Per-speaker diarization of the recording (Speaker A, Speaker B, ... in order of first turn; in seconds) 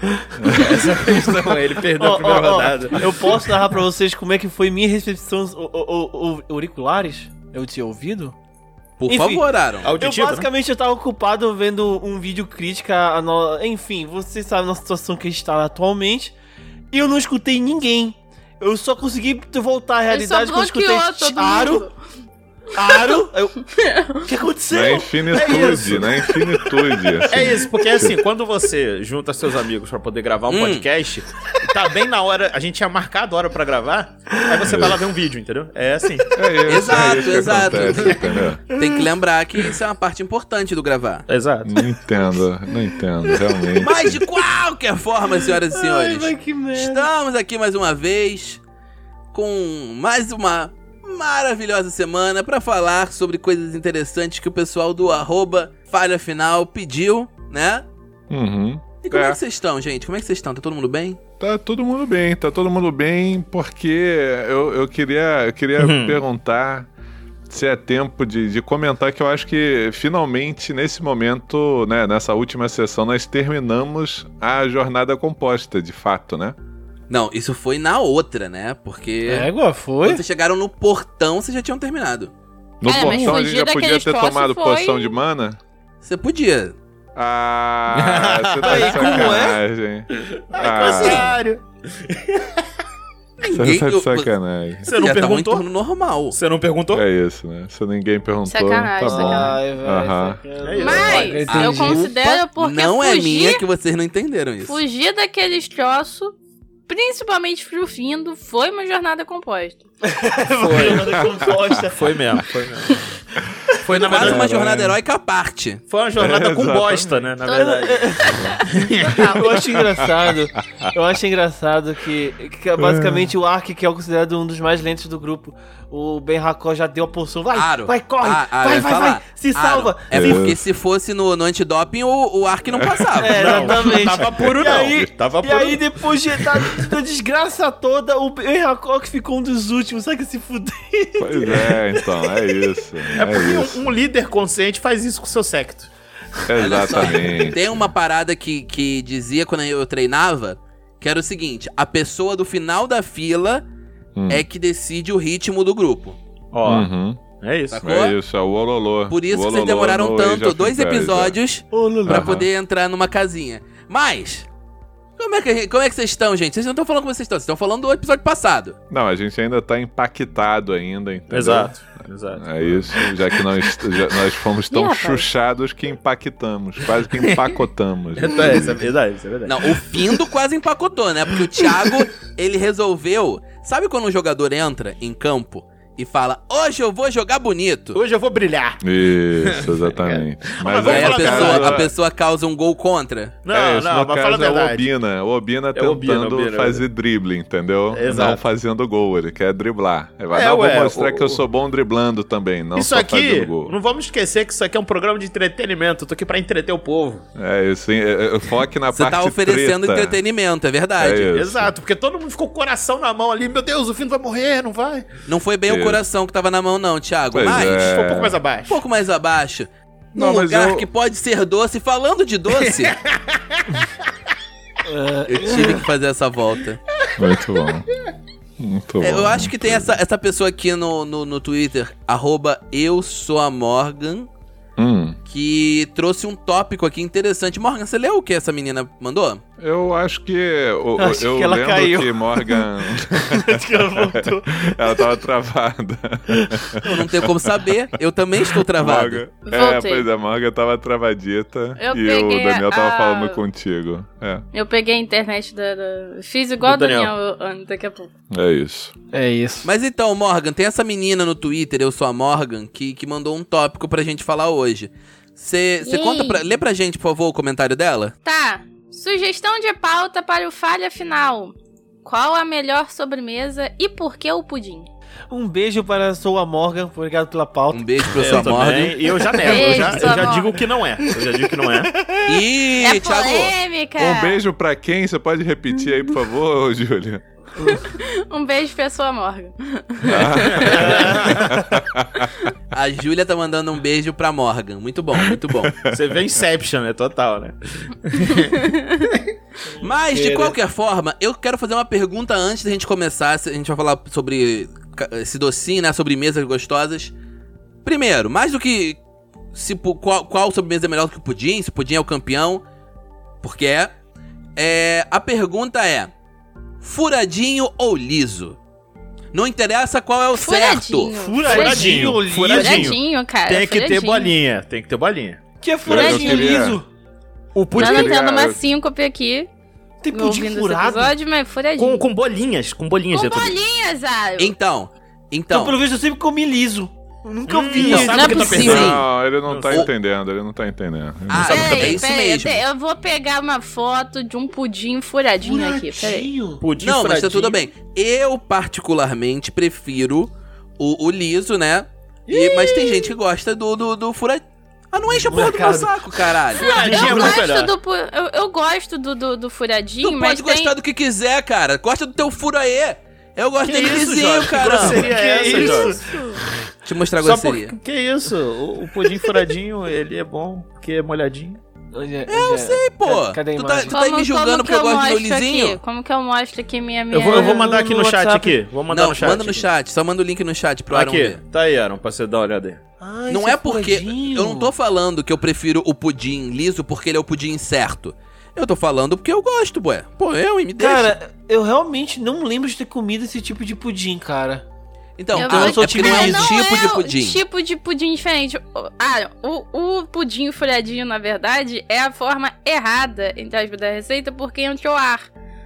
Speaker A: 0.4-0.9, 24.7-28.2, 34.7-35.0, 36.3-38.6, 41.6-44.2, 58.3-59.4, 61.4-66.9, 67.5-76.6, 82.8-85.6, 87.2-91.4, 93.5-94.9, 96.9-100.4, 111.2-111.7, 116.2-117.1, 122.8-123.3, 130.1-130.7, 132.7-134.3, 141.2-143.8, 146.5-147.6, 154.2-154.4, 156.7-157.2, 157.8-161.4, 162.1-162.5, 168.9-171.7, 172.4-178.8, 188.8-191.9, 193.5-203.7, 207.4-210.2, 211.0-211.7, 215.7-216.1, 217.3-218.4, 220.1-220.9, 227.2-227.9, 228.6-230.0, 234.8-235.2, 239.6-247.0, 248.7-254.4, 258.3-258.9, 284.0-287.2, 290.0-292.5, 295.3-296.0, 325.9-326.8, 327.7-328.6, 338.6-341.8
Speaker B: 0.5-3.3, 9.8-10.5, 25.4-25.9, 27.3-36.4, 37.7-38.8, 41.3-41.9, 65.8-66.2, 87.9-89.4, 90.2-92.6, 94.8-95.7, 96.3-97.0, 100.6-101.6, 110.6-111.3, 111.9-113.0, 113.8-114.9, 115.9-119.6, 133.4-135.8, 143.2-145.9, 156.5-156.9, 157.4-157.8, 171.3-173.1, 177.2-177.5, 178.2-179.8, 187.9-188.8, 189.4-191.9, 193.4-194.9, 195.7-196.8, 197.9-198.4, 200.3-201.4, 202.7-207.2, 211.3-215.1, 217.7-218.8, 222.6-223.9, 256.6-257.1, 278.1-281.9, 290.5-291.5, 295.9-299.3, 321.4-325.4, 327.6-328.2, 331.8-333.6, 337.5-339.9, 341.4-342.0, 346.6-347.6, 352.3-352.9, 356.6-357.7, 363.6-366.1, 367.2-371.6, 377.1-379.7, 380.9-382.8
Speaker C: 0.5-1.4, 2.0-8.3, 9.1-9.4, 10.0-16.3, 16.9-21.9, 22.8-23.6, 24.2-27.0, 45.7-47.1, 79.3-80.2, 88.6-89.6, 99.0-102.0, 110.1-112.4, 113.9-114.4, 117.5-130.4, 133.2-142.6, 161.7-162.4, 224.8-225.8, 241.0-245.1, 259.1-259.7, 275.3-278.4, 279.4-280.3, 281.1-282.3, 290.7-291.8, 300.1-300.6, 321.1-323.0, 325.6-326.9, 330.0-331.1, 335.5-338.8, 345.4-346.6, 355.1-356.0, 356.9-357.4, 364.7-366.2, 371.9-373.9, 377.3-378.6, 383.0-384.7, 390.8-394.6, 395.3-396.6
Speaker D: 9.0-9.9, 30.5-30.9, 36.7-41.3, 43.8-48.6, 49.3-57.8, 59.0-61.2, 77.1-79.5, 80.0-82.3, 86.0-86.8, 93.4-94.3, 94.9-96.4, 101.5-104.8, 113.9-115.8, 127.5-133.6, 146.6-153.6, 154.3-156.2, 157.7-158.2, 159.1-164.5, 165.2-168.8, 179.5-188.0, 190.8-193.4, 208.9-211.3, 215.3-217.9, 218.7-223.0, 225.3-226.8, 229.0-234.3, 235.3-239.4, 246.8-249.2, 259.6-268.1, 277.7-279.2, 282.3-283.5, 292.7-295.8, 299.8-307.1, 307.9-309.0, 309.5-312.6, 313.4-313.9, 314.6-316.1, 316.8-318.6, 319.3-321.1, 334.4-335.8, 337.7-339.1, 341.3-342.6, 346.8-357.1, 360.0-365.1, 366.9-367.8, 372.3-375.8, 378.9-381.4, 383.3-391.1, 395.2-397.4
Speaker E: 20.1-22.0, 23.7-24.3, 82.9-85.2, 98.5-99.6, 100.8-103.6, 104.6-106.3, 106.9-109.8, 117.5-118.7, 174.7-175.3, 249.5-250.1, 251.8-253.4, 254.5-258.1, 265.8-266.4, 268.2-274.9, 279.4-280.6, 282.8-284.4, 287.7-291.0, 298.2-299.1, 320.3-324.4, 325.9-326.5, 327.7-329.5, 330.1-332.1, 333.1-334.5, 338.1-338.9, 341.5-346.3, 356.6-360.7, 365.3-366.4, 373.9-377.7, 395.3-405.3